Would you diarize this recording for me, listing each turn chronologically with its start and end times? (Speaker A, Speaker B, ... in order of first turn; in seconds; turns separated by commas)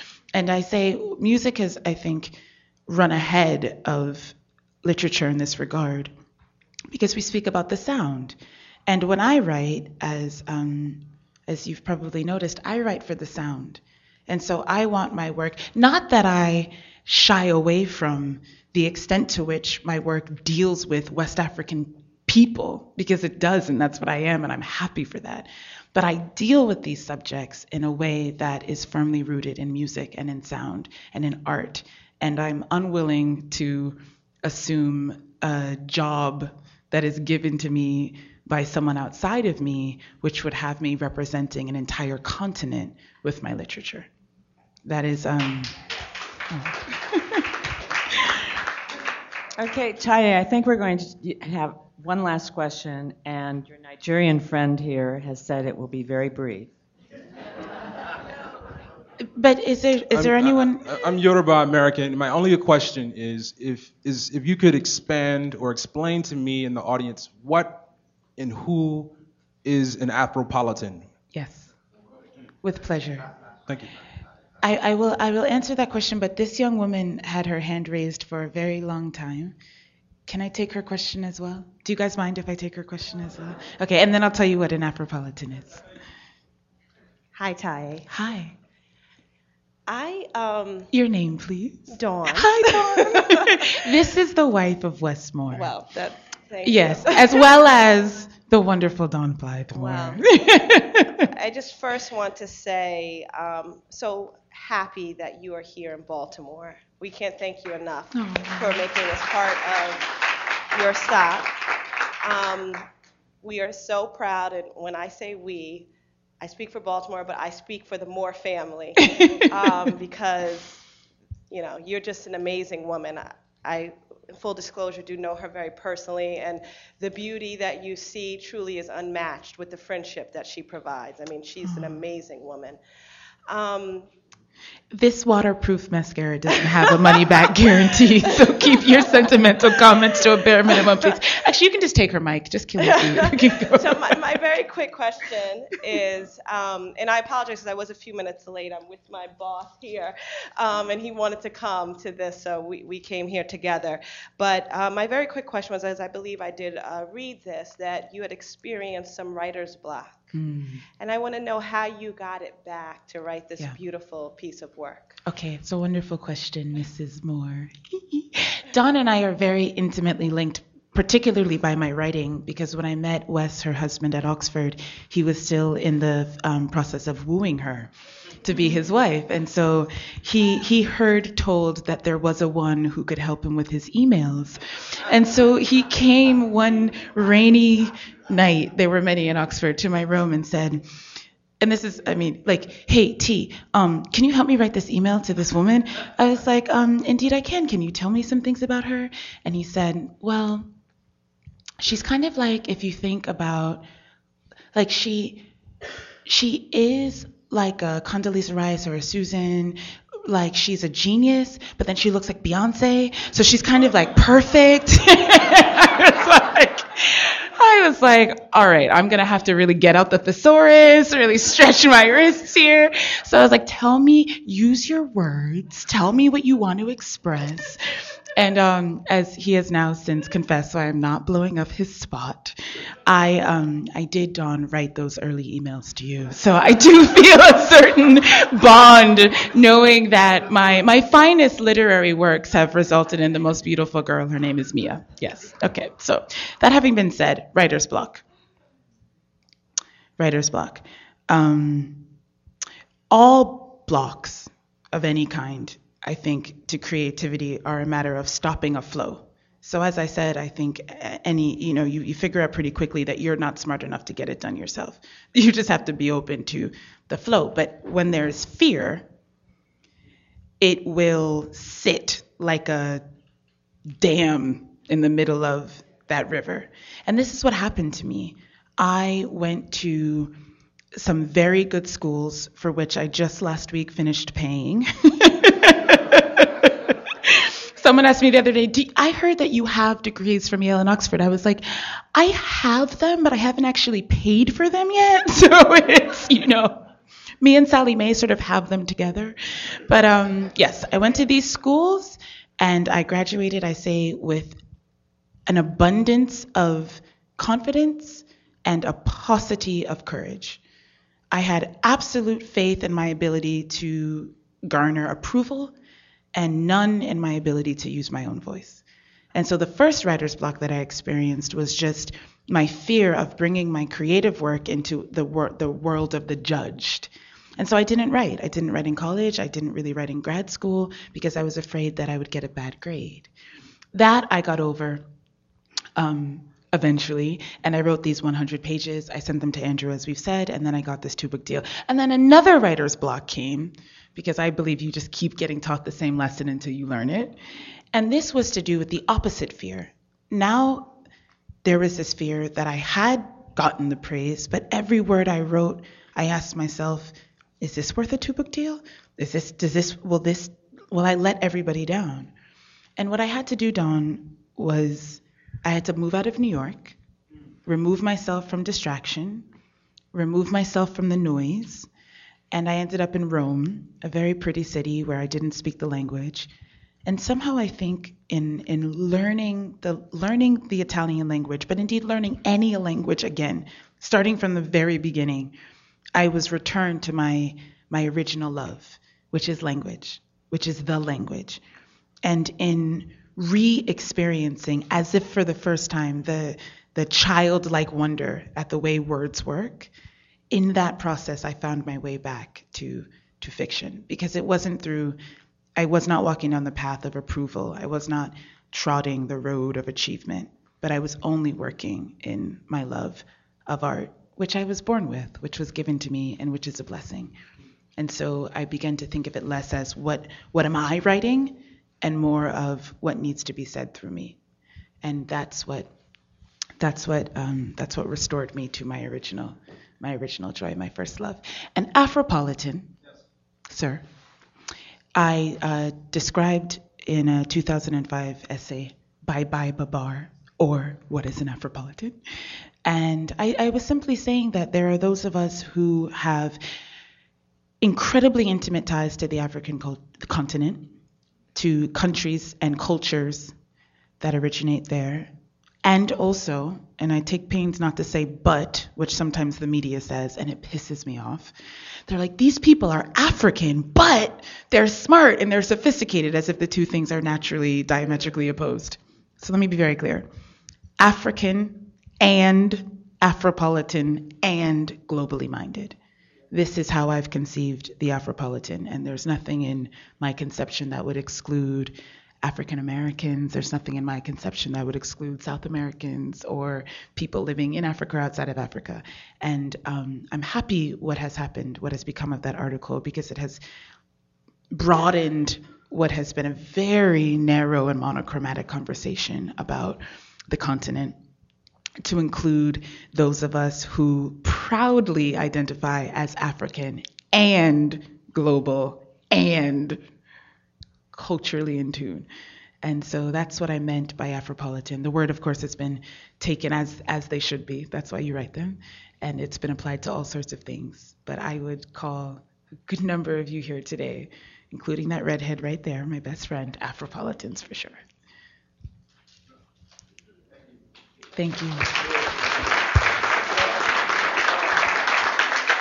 Speaker A: 0.3-6.1, Speaker A: 6.9-44.1, Speaker A: 44.8-45.8, Speaker A: 46.5-47.5, Speaker B: 49.6-56.7, Speaker A: 59.3-60.8, Speaker C: 60.1-69.1, Speaker C: 69.6-71.1, Speaker A: 71.3-71.7, Speaker A: 72.6-73.3, Speaker A: 74.6-79.6, Speaker A: 80.3-85.8, Speaker D: 87.3-88.1, Speaker A: 88.1-88.6, Speaker D: 89.9-90.9, Speaker A: 90.9-95.7, Speaker D: 91.9-93.9, Speaker D: 95.5-97.5, Speaker A: 96.6-101.2, Speaker D: 99.8-100.2, Speaker D: 101.2-111.6, Speaker A: 108.1-108.8, Speaker D: 112.2-112.8, Speaker D: 113.4-115.9, Speaker D: 116.4-120.8, Speaker A: 119.0-119.6, Speaker D: 121.5-132.8, Speaker A: 131.6-132.0, Speaker D: 133.5-134.1, Speaker A: 134.9-144.2, Speaker D: 136.5-139.8, Speaker D: 140.7-141.1, Speaker D: 142.8-160.2, Speaker A: 160.3-160.8, Speaker D: 161.0-165.2, Speaker A: 165.2-190.9, Speaker A: 191.6-200.7, Speaker A: 201.8-203.8, Speaker A: 204.7-205.5, Speaker A: 206.2-227.8, Speaker A: 228.4-248.2, Speaker A: 250.2-252.1, Speaker A: 253.1-269.1, Speaker A: 270.6-273.0, Speaker A: 274.0-280.4, Speaker A: 280.9-296.9, Speaker A: 297.4-304.6, Speaker A: 305.5-310.6, Speaker A: 311.3-315.7, Speaker A: 316.3-333.3, Speaker A: 333.9-335.0, Speaker A: 336.0-347.4, Speaker A: 347.9-350.9, Speaker A: 351.6-362.3, Speaker A: 363.0-367.0, Speaker A: 367.7-369.5, Speaker A: 370.1-371.9, Speaker A: 372.5-376.5, Speaker A: 377.1-385.5, Speaker A: 386.1-391.6, Speaker A: 392.2-399.9, Speaker A: 400.5-405.2, Speaker A: 405.8-417.4, Speaker A: 418.0-424.4, Speaker A: 425.0-425.9, Speaker A: 426.8-432.9, Speaker A: 433.7-434.1, Speaker A: 435.1-442.2, Speaker A: 442.9-446.6, Speaker A: 447.8-450.9, Speaker A: 451.5-453.6, Speaker A: 454.2-455.3, Speaker A: 455.8-461.5, Speaker A: 462.1-470.3, Speaker A: 471.0-476.0, Speaker A: 476.5-493.6, Speaker A: 494.7-501.2, Speaker A: 502.0-510.0, Speaker A: 511.1-512.3, Speaker A: 512.8-528.0, Speaker A: 531.4-532.0